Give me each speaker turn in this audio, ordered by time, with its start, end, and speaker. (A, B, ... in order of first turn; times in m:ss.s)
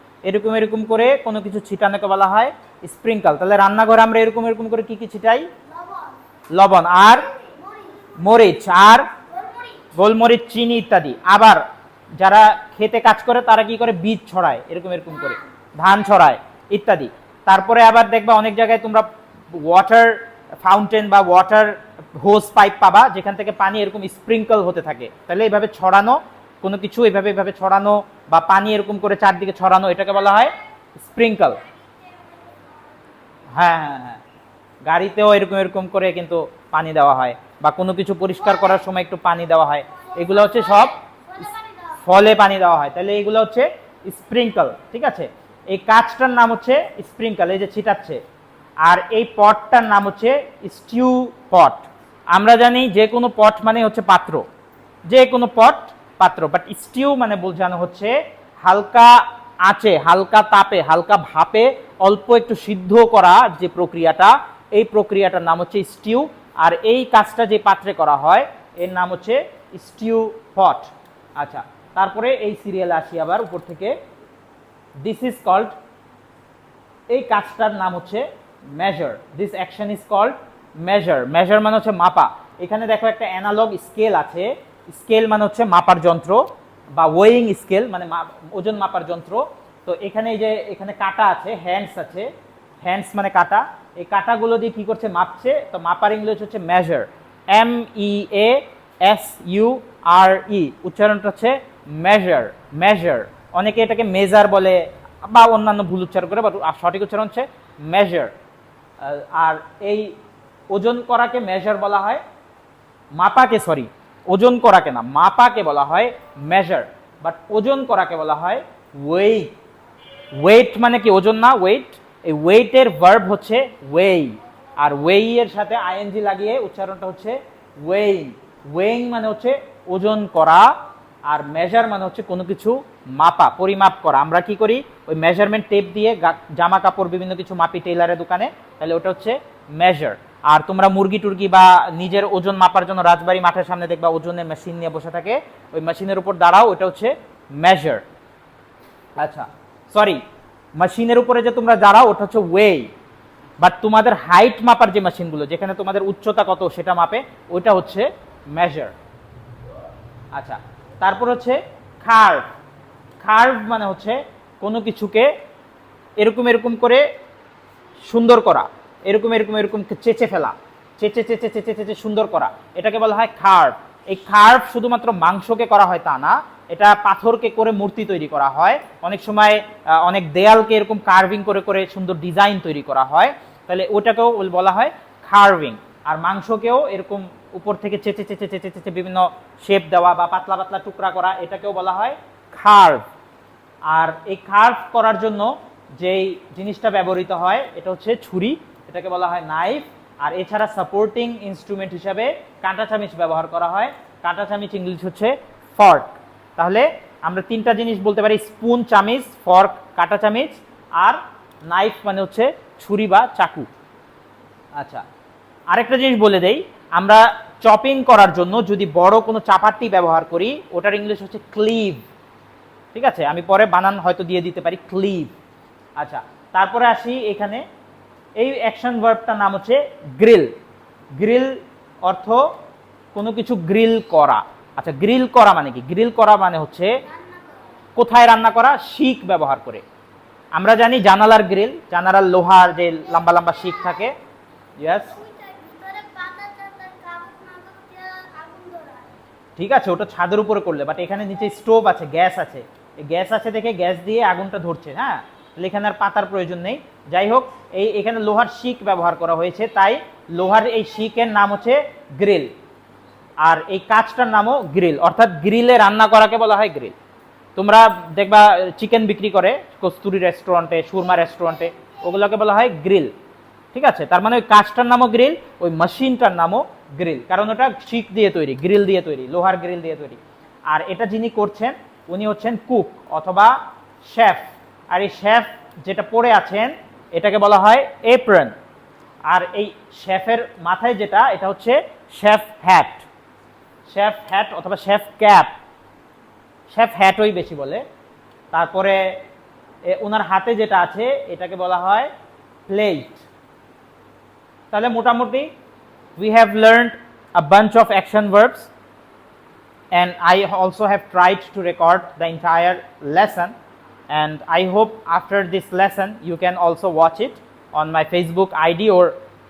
0:00.2-0:05.5 A
0:05.6-0:06.2 B
0:06.5-0:07.3 A
0:07.3-0:08.4 B
0:08.2-0:09.1 A
0:09.1-0:09.9 B
0:10.0-0:11.6 A
0:12.2-0:31.6 A
0:31.5-0:33.0 B
0:33.5-0:34.2 A
0:34.9-0:40.9 A
0:38.4-0:38.8 B
0:40.1-0:42.0 B
0:42.0-0:48.2 A
0:48.8-0:54.4 A
0:55.1-1:14.0 A
1:15.0-1:15.8 A
1:17.1-1:32.3 A
1:32.8-1:48.3 A
1:49.0-1:50.2 A
1:50.7-1:52.2 A
1:53.2-1:59.5 A
2:00.4-2:10.7 A
2:11.3-2:28.0 A
2:29.2-2:30.2 A
2:30.8-2:32.9 A
2:33.6-2:38.9 A
2:40.3-2:42.5 A
2:43.2-2:45.3 A
2:46.2-2:47.0 A
2:48.1-3:13.0 A
3:13.9-3:33.7 A
3:34.8-3:35.0 A
3:35.7-3:42.0 A
3:43.0-3:45.4 A
3:46.0-3:47.6 A
3:48.4-3:50.5 A
3:51.2-3:52.5 A
3:53.1-3:57.0 A
3:57.0-3:57.8 B
3:58.0-3:59.8 A
4:00.6-4:04.2 A
4:03.5-4:04.0 B
4:04.8-4:05.1 A
4:05.1-4:09.2 B
4:09.6-4:22.5 A
4:23.4-4:27.0 A
4:27.6-4:33.1 A
4:33.7-4:48.6 A
4:49.3-4:53.0 A
4:53.9-4:55.5 A
4:56.7-4:57.8 A
4:58.5-4:59.0 A
4:59.9-5:02.1 A
5:02.7-5:03.3 A
5:04.7-5:05.5 A
5:06.2-5:08.7 A
5:09.9-5:13.5 A
5:14.1-5:19.2 A